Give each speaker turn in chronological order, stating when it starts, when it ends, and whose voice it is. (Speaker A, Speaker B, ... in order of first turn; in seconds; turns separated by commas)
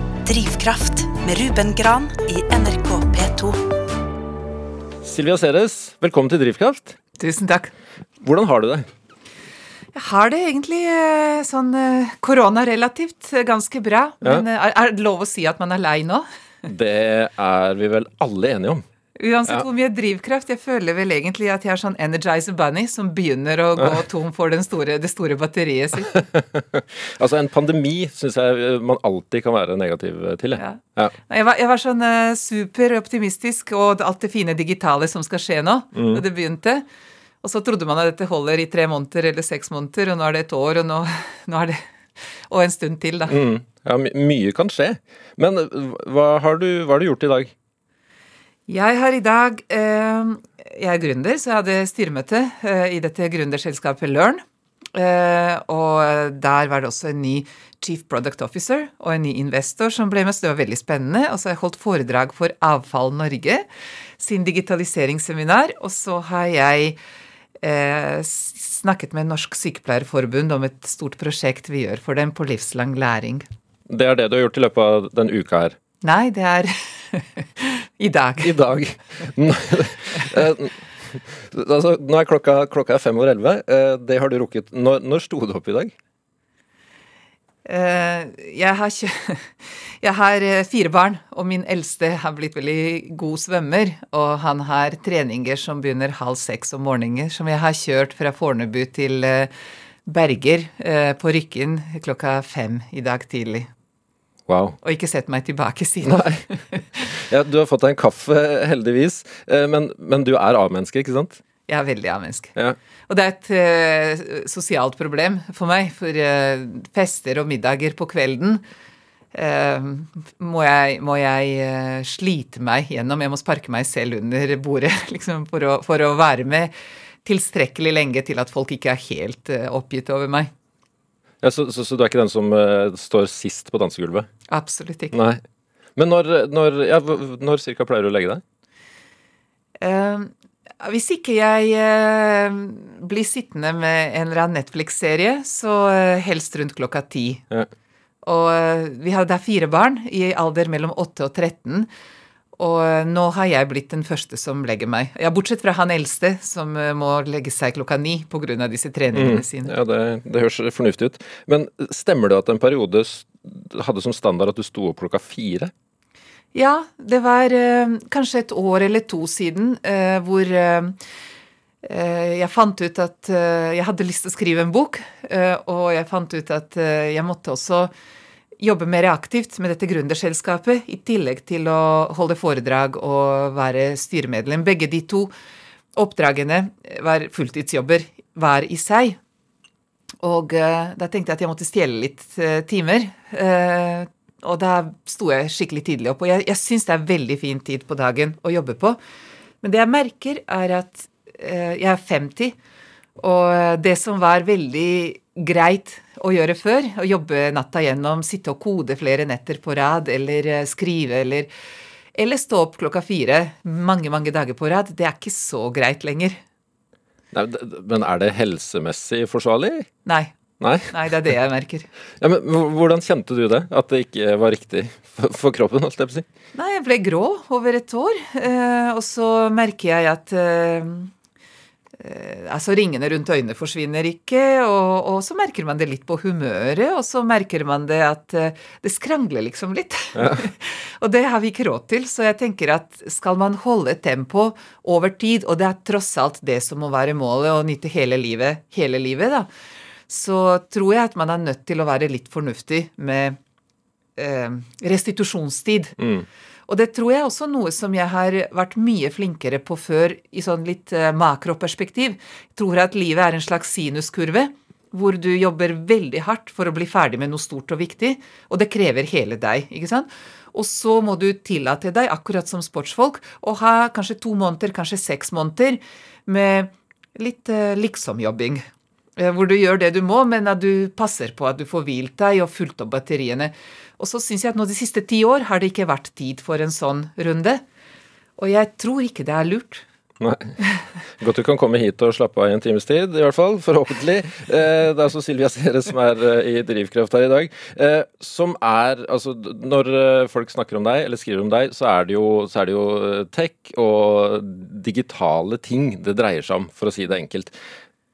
Speaker A: 0.2-3.6, Speaker B: 5.0-7.0, Speaker C: 7.2-7.7, Speaker B: 8.2-8.9, Speaker C: 9.9-16.2, Speaker B: 16.6-18.8, Speaker C: 19.2-26.2, Speaker B: 26.1-31.1, Speaker C: 30.6-36.9, Speaker B: 36.0-36.2, Speaker C: 37.4-41.8, Speaker C: 42.5-43.4, Speaker B: 43.3-47.5, Speaker C: 48.7-54.4, Speaker C: 55.0-63.6, Speaker C: 64.2-67.0, Speaker C: 67.6-73.5, Speaker B: 73.9-75.8, Speaker C: 76.0-78.5, Speaker B: 78.4-85.9, Speaker C: 87.7-99.5, Speaker C: 100.1-103.7, Speaker B: 104.5-104.8, Speaker C: 104.8-107.1, Speaker B: 106.0-106.4, Speaker B: 107.1-111.4, Speaker C: 111.7-112.6, Speaker C: 113.1-118.6, Speaker C: 119.3-126.7, Speaker C: 127.2-130.5, Speaker B: 131.4-134.3, Speaker C: 134.5-135.1, Speaker B: 135.1-135.4, Speaker B: 136.0-138.4, Speaker C: 139.8-147.4, Speaker C: 148.2-151.9, Speaker C: 152.6-159.7, Speaker B: 159.1-165.7, Speaker C: 166.5-171.0, Speaker C: 171.8-177.9, Speaker C: 178.6-185.3, Speaker C: 185.9-189.2, Speaker C: 190.2-199.0, Speaker C: 199.6-202.6, Speaker C: 203.2-211.5, Speaker C: 212.2-216.4, Speaker B: 217.3-219.9, Speaker C: 220.1-220.3, Speaker B: 220.6-221.0, Speaker C: 220.9-221.9, Speaker B: 222.2-226.2, Speaker C: 226.6-231.1, Speaker C: 232.0-249.5, Speaker B: 240.2-240.4, Speaker C: 250.1-253.4, Speaker C: 254.2-256.0, Speaker B: 256.0-256.2, Speaker C: 256.7-278.6, Speaker C: 279.2-287.6, Speaker C: 288.4-289.8, Speaker B: 290.2-290.6, Speaker B: 291.2-307.6